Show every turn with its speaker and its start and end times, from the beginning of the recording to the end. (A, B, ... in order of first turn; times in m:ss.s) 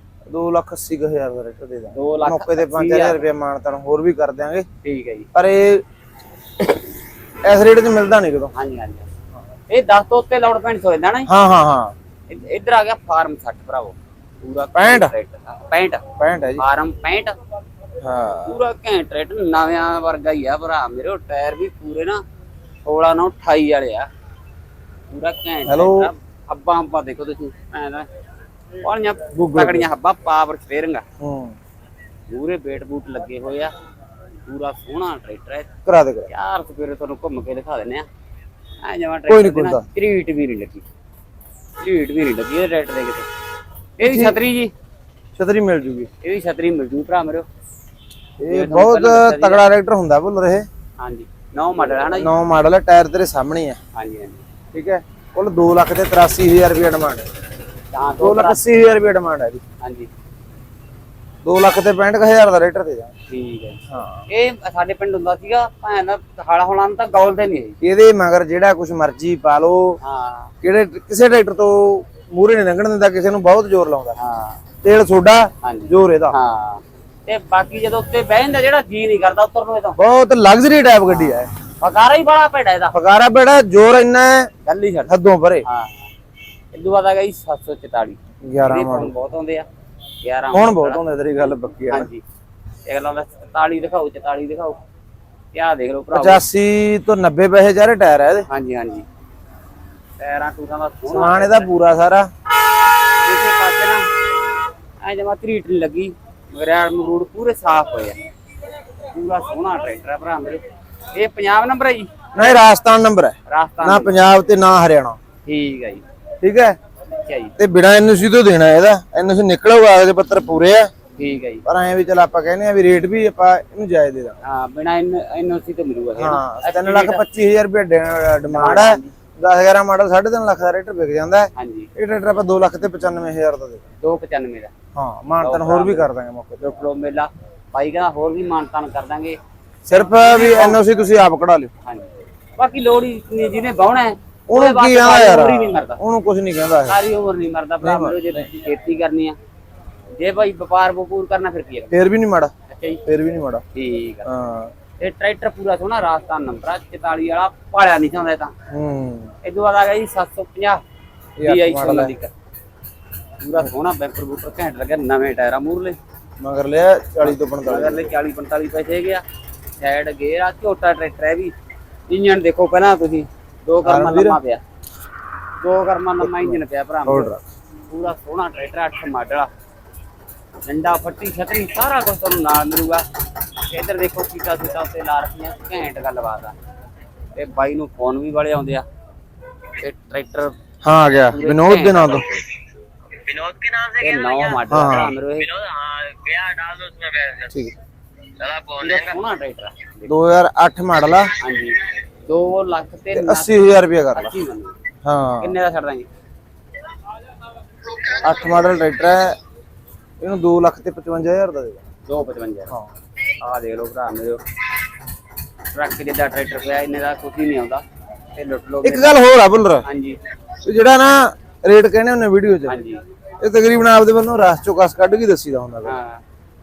0:00.3-0:04.6 A
0:01.9-0:03.2 B
0:04.8-0:05.3 B
0:05.3-0:05.8 A
0:06.6-0:06.8 A
0:07.4-0:08.5 A
0:08.5-0:09.1 B
0:09.7-0:11.3 B
0:11.3-0:11.9 A
0:12.3-0:16.0 B
0:14.7-0:15.1 A
0:16.2-0:16.6 A
0:16.6-0:17.3 B
0:18.0-0:18.6 A
0:18.4-0:22.2 B
0:22.8-0:24.1 B
0:25.1-0:28.1 B
0:25.6-0:26.1 A
0:28.8-0:31.0 B
0:29.3-0:29.9 A
0:31.2-0:31.6 A
0:32.3-0:33.7 B
0:34.4-0:35.7 B
0:35.8-0:36.3 A
0:36.3-0:38.0 B
0:38.8-0:40.8 B
0:39.3-0:39.8 A
0:41.8-0:43.3 B
0:44.0-0:44.7 B
0:44.0-0:44.4 A
0:45.4-0:46.1 A
0:46.2-0:47.4 B
0:48.4-0:50.7 A
0:48.5-0:49.6 B
0:51.0-0:52.3 B
0:51.9-0:53.8 A
0:53.9-0:54.4 B
0:54.7-0:57.2 A
0:57.9-0:58.6 B
0:58.2-0:59.6 A
0:59.8-1:00.1 B
1:01.4-1:03.1 A
1:03.3-1:07.8 B
1:03.9-1:04.2 A
1:07.8-1:10.0 A
1:10.0-1:10.5 B
1:10.6-1:14.1 A
1:14.2-1:14.6 B
1:14.8-1:16.4 A
1:15.6-1:20.0 B
1:20.0-1:21.5 A
1:21.1-1:22.9 B
1:22.9-1:24.5 A
1:24.6-1:26.1 B
1:25.1-1:25.6 A
1:26.7-1:29.6 B
1:28.4-1:29.1 A
1:30.2-1:32.2 B
1:30.5-1:32.1 A
1:32.8-1:34.8 B
1:35.5-1:36.4 B
1:36.1-1:38.5 A
1:38.5-1:39.0 B
1:40.2-1:41.7 B
1:41.1-1:42.3 A
1:43.2-1:44.1 B
1:45.0-1:48.2 B
1:49.1-1:52.6 B
1:52.3-1:55.2 A
1:53.5-1:54.2 B
1:55.4-1:56.0 B
1:56.4-1:56.8 A
1:57.1-1:57.6 B
1:57.6-2:00.9 A
2:01.2-2:01.6 B
2:01.6-2:04.4 A
2:04.4-2:07.2 B
2:06.2-2:13.8 A
2:08.5-2:09.1 B
2:11.5-2:11.9 B
2:14.0-2:14.7 B
2:14.9-2:16.7 A
2:15.4-2:16.1 B
2:16.6-2:19.4 B
2:19.8-2:21.7 A
2:19.9-2:20.8 B
2:21.8-2:26.0 B
2:24.5-2:27.0 A
2:26.9-2:29.4 B
2:27.8-2:28.5 A
2:30.2-2:31.9 B
2:31.9-2:32.5 A
2:32.7-2:33.0 B
2:33.0-2:33.6 A
2:33.7-2:34.3 B
2:34.2-2:34.7 A
2:35.0-2:38.5 B
2:38.7-2:39.3 A
2:39.4-2:40.8 B
2:41.4-2:42.1 A
2:41.4-2:42.3 B
2:43.4-2:46.0 B
2:46.4-2:48.1 A
2:47.2-2:49.2 B
2:49.8-2:51.5 B
2:52.1-2:54.6 B
2:53.8-2:54.4 A
2:55.6-2:57.3 B
2:56.2-2:57.4 A
2:57.9-2:59.5 B
3:00.6-3:03.0 B
3:03.7-3:06.5 B
3:07.3-3:08.8 B
3:09.8-3:10.5 B
3:10.8-3:12.4 A
3:11.3-3:12.4 B
3:13.2-3:14.0 C
3:14.0-3:15.6 B
3:14.6-3:15.2 A
3:15.6-3:17.5 C
3:17.5-3:17.7 A
3:18.4-3:18.7 C
3:18.7-3:20.1 B
3:20.1-3:21.3 A
3:21.4-3:23.5 B
3:23.1-3:24.3 A
3:24.1-3:24.8 B
3:25.0-3:25.6 A
3:25.4-3:26.1 B
3:28.0-3:29.4 A
3:30.2-3:31.8 A
3:32.0-3:32.7 B
3:33.4-3:34.4 B
3:35.7-3:39.2 B
3:38.8-3:39.8 A
3:39.8-3:40.2 B
3:40.6-3:42.8 A
3:42.6-3:43.0 B
3:43.4-3:46.0 A
3:45.8-3:46.2 B